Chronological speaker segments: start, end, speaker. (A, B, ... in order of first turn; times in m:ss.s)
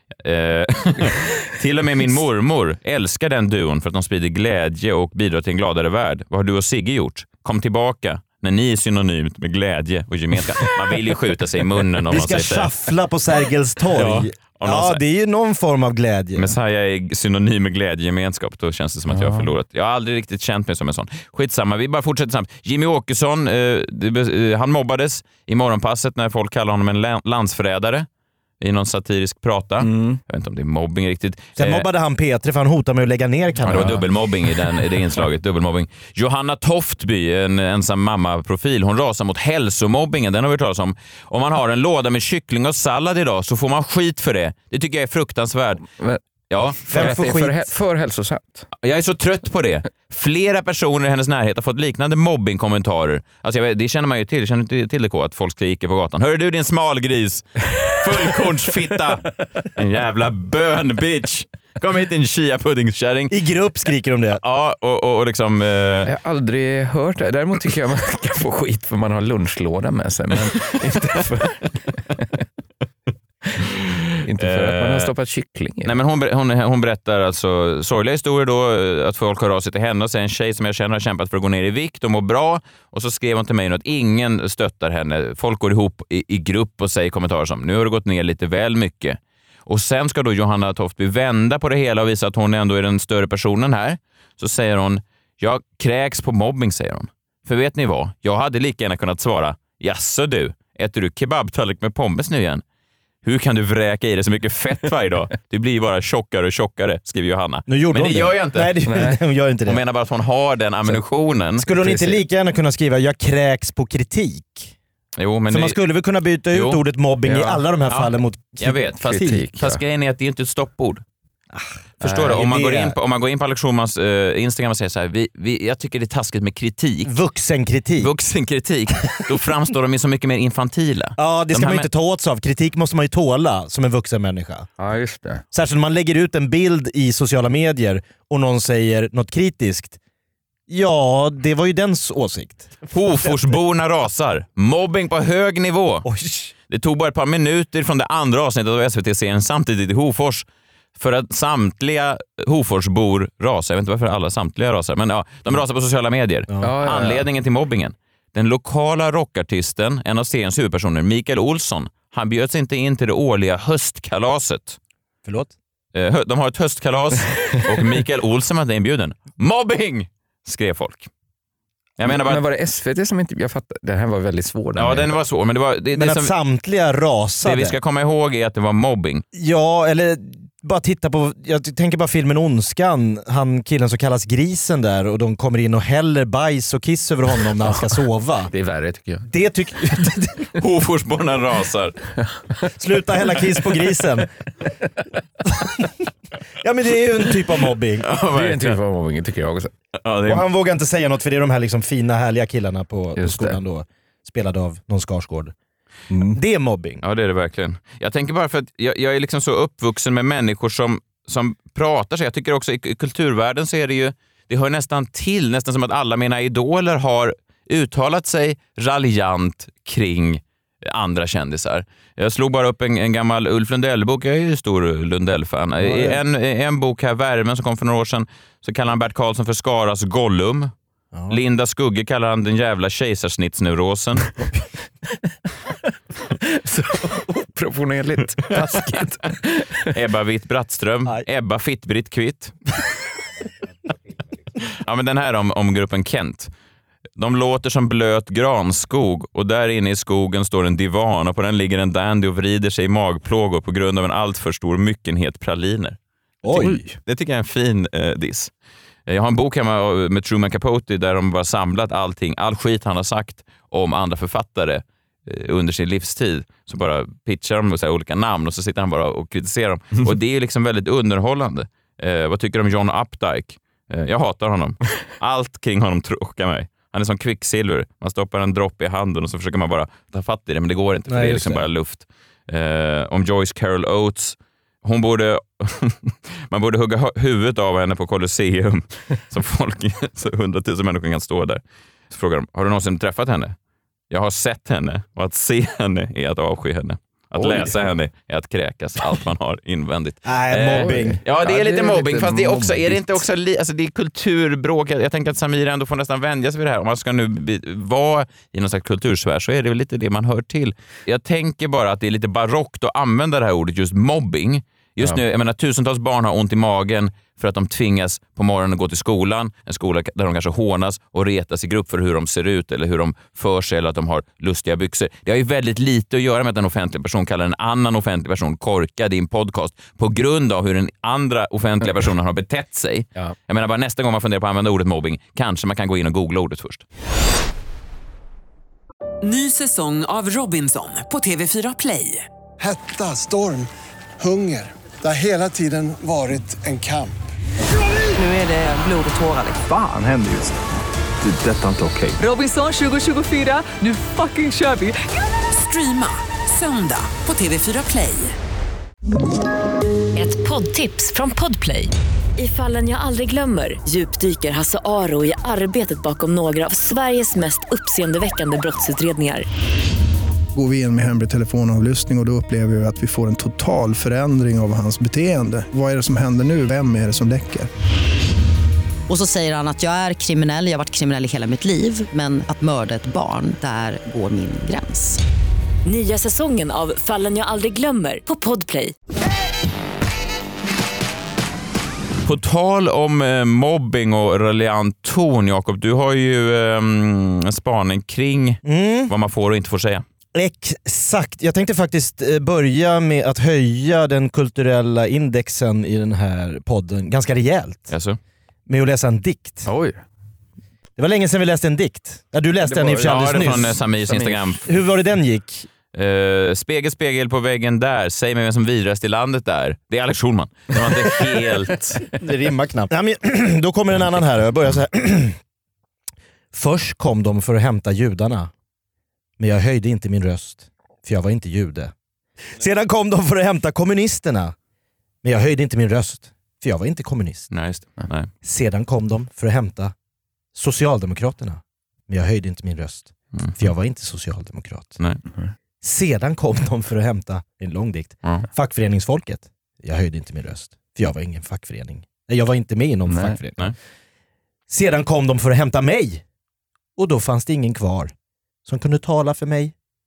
0:00.2-0:12.7 A
0:12.1-0:16.5 B
0:13.9-0:15.0 A
0:16.4-0:28.1 A
0:19.1-0:19.5 C
0:28.6-0:31.8 A
0:29.8-0:30.2 C
0:31.6-0:34.0 B
0:33.6-0:45.9 A
0:33.7-0:34.0 C
0:46.0-0:46.2 C
0:46.5-0:47.2 A
0:46.8-0:48.7 C
0:46.9-0:47.6 B
0:48.8-1:03.3 A
1:03.3-1:04.4 B
1:04.4-1:06.1 A
1:06.0-1:12.3 C
1:14.2-1:15.9 C
1:14.4-1:15.1 A
1:15.8-1:42.6 A
1:43.2-1:48.7 A
1:47.7-1:49.8 B
1:48.8-1:49.2 C
1:49.6-1:51.6 A
1:51.6-1:54.7 B
1:51.8-1:52.2 C
1:55.2-1:55.8 A
1:55.5-1:59.4 B
1:56.5-1:56.8 A
1:57.2-1:57.6 C
1:57.9-2:01.0 A
1:59.0-1:59.8 C
2:02.0-2:07.1 A
2:02.0-2:02.4 C
2:02.3-2:02.9 B
2:07.0-2:08.1 B
2:08.0-2:11.9 A
2:11.2-2:14.7 B
2:14.8-2:15.4 C
2:15.5-2:20.0 B
2:20.7-2:23.3 B
2:22.9-2:26.0 A
2:26.0-2:26.5 B
2:26.7-2:30.4 A
2:31.0-2:44.8 A
2:36.6-2:37.2 C
2:45.2-2:45.5 B
2:45.9-2:51.1 A
2:52.0-2:52.4 A
2:52.0-2:55.1 C
2:54.8-2:56.3 A
2:55.9-2:57.8 B
2:57.4-2:59.2 A
2:59.3-3:08.5 B
3:08.5-3:09.3 C
3:09.2-3:10.5 B
3:10.6-3:11.9 A
3:12.7-3:14.3 B
3:15.5-3:15.9 B
3:16.6-3:18.0 B
3:18.0-3:18.8 A
3:18.3-3:19.7 C
3:20.0-3:20.4 A
3:20.2-3:25.5 B
3:23.2-3:23.6 C
3:26.3-3:27.0 B
3:27.0-3:50.7 A
3:45.8-3:46.2 B
3:51.3-3:54.3 A
3:56.4-3:59.8 C
3:59.9-4:02.5 A
4:04.7-4:06.5 A
4:07.2-4:16.0 A
4:16.4-4:16.9 B
4:16.5-4:18.5 A
4:19.1-4:53.5 A
4:41.1-4:41.7 B
4:54.1-5:36.8 A
4:57.4-4:57.8 C
5:00.2-5:01.2 B
5:00.7-5:03.2 C
5:39.2-5:42.2 D
5:42.6-5:47.2 E
5:48.3-5:49.4 D
5:49.6-5:50.6 F
5:51.2-5:52.2 F
5:52.2-5:58.4 D
6:00.1-6:09.4 G
6:10.5-6:17.7 H
6:19.1-6:25.2 I
6:25.8-6:28.9 G
6:32.2-6:40.0 A
6:38.6-6:39.1 B
6:40.3-6:47.9 B
6:47.9-6:48.2 A
6:48.7-6:49.7 B
6:49.6-6:50.0 C
6:51.0-6:53.8 B
6:52.6-6:54.5 C
6:53.0-6:54.7 A
6:54.6-6:55.7 B
6:55.9-7:02.0 A
7:02.2-7:05.4 B
7:06.5-7:08.5 B
7:09.4-7:11.9 B
7:12.6-7:14.5 B
7:15.2-7:17.5 B
7:17.5-7:18.3 A
7:18.4-7:19.9 B
7:20.5-7:25.0 B
7:25.8-7:33.7 B
7:33.1-7:33.4 C
7:34.7-7:36.2 B
7:37.0-7:38.1 B
7:38.6-7:39.7 B